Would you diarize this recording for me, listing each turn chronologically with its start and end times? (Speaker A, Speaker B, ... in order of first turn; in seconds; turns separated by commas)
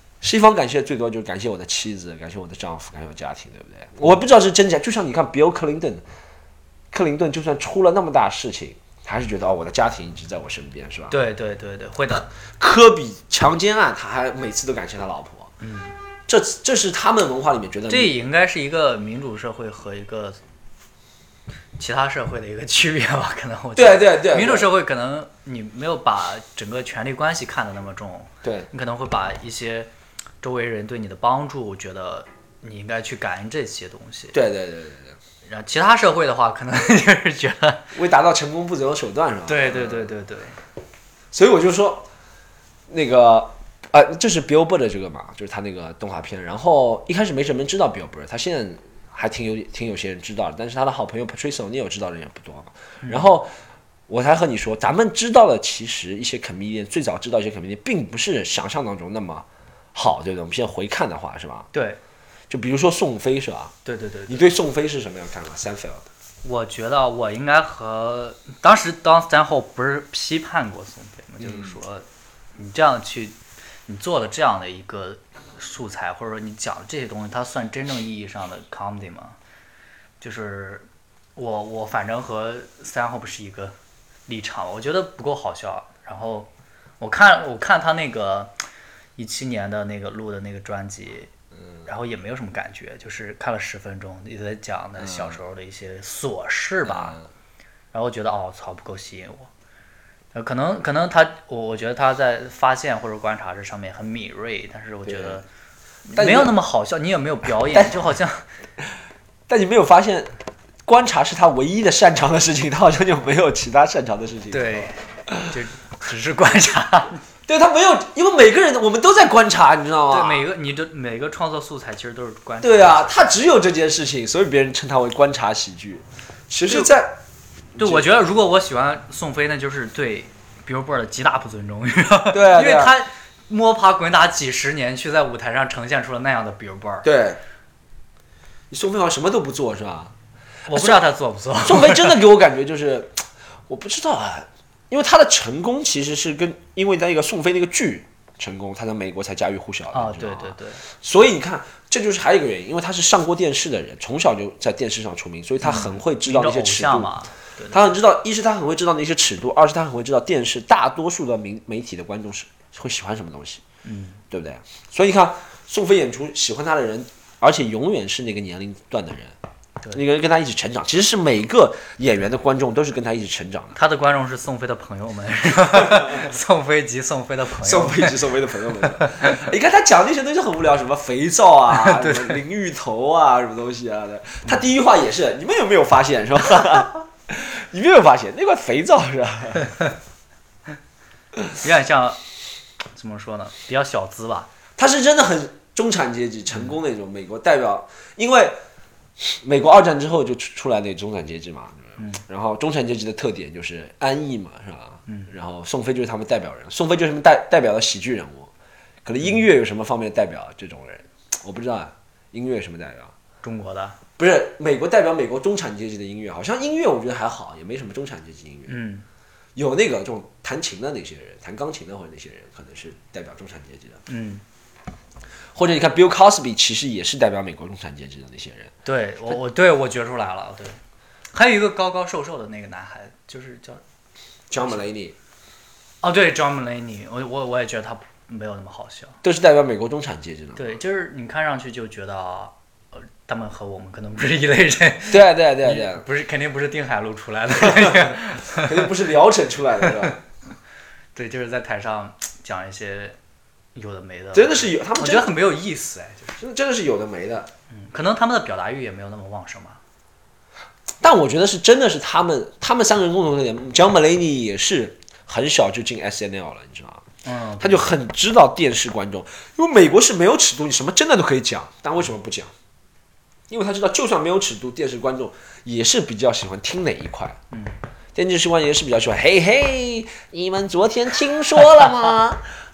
Speaker A: 0.2-6.0, Speaker A: 6.9-11.2, Speaker B: 11.1-12.3, Speaker A: 12.6-15.5, Speaker B: 15.6-15.9, Speaker A: 16.3-18.1, Speaker B: 17.9-20.4, Speaker B: 21.8-29.9, Speaker A: 23.8-24.7, Speaker A: 28.4-28.7, Speaker B: 30.4-34.4, Speaker A: 34.3-35.1, Speaker B: 35.4-37.9, Speaker A: 37.9-40.1, Speaker B: 39.5-40.6, Speaker A: 41.3-42.1, Speaker A: 42.9-53.5, Speaker B: 53.0-53.3, Speaker A: 54.1-61.7, Speaker B: 61.7-62.0, Speaker A: 62.5-63.7, Speaker B: 63.9-64.5, Speaker A: 64.3-66.1, Speaker B: 66.4-79.4, Speaker A: 71.4-71.7, Speaker B: 80.2-83.7, Speaker B: 84.3-88.5, Speaker B: 89.2-91.3, Speaker B: 91.9-97.2, Speaker A: 95.0-95.3, Speaker A: 96.9-97.2, Speaker B: 97.9-99.5, Speaker B: 100.3-105.5, Speaker A: 105.0-105.4, Speaker B: 106.1-108.5, Speaker A: 106.1-106.5, Speaker A: 109.5-110.3, Speaker A: 110.9-114.9, Speaker B: 114.5-117.2, Speaker A: 117.5-120.4, Speaker B: 120.1-123.3, Speaker A: 122.6-127.2, Speaker A: 127.7-128.1, Speaker B: 127.8-137.1, Speaker A: 132.3-132.9, Speaker A: 137.0-137.4, Speaker A: 138.7-140.1, Speaker B: 140.7-142.2, Speaker A: 140.7-141.0, Speaker A: 141.6-157.1, Speaker B: 149.9-150.8, Speaker B: 155.6-157.9, Speaker A: 157.7-163.6, Speaker B: 163.8-164.2, Speaker A: 164.3-169.3, Speaker A: 169.9-173.8, Speaker B: 173.7-178.2, Speaker A: 177.6-189.7, Speaker B: 178.8-179.4, Speaker B: 181.7-182.4, Speaker B: 191.6-192.2, Speaker B: 192.9-194.5, Speaker A: 194.8-198.6, Speaker A: 199.2-208.5, Speaker A: 209.1-213.1, Speaker B: 213.4-214.0, Speaker A: 214.2-218.8, Speaker B: 218.7-219.1, Speaker A: 219.6-224.0, Speaker B: 224.1-224.4, Speaker A: 225.6-228.7, Speaker B: 228.8-230.8, Speaker B: 231.3-233.8, Speaker A: 234.5-235.1, Speaker B: 236.0-239.2, Speaker A: 239.2-240.7, Speaker B: 240.6-248.9, Speaker A: 245.1-246.0, Speaker A: 247.6-250.2, Speaker B: 249.8-250.1, Speaker B: 251.1-253.2, Speaker B: 253.7-256.4, Speaker A: 254.3-255.3, Speaker A: 256.4-257.5, Speaker B: 257.7-259.8, Speaker A: 261.0-267.0, Speaker B: 267.2-267.9, Speaker A: 267.6-272.5, Speaker A: 273.5-277.4, Speaker B: 277.5-277.8, Speaker A: 278.1-282.4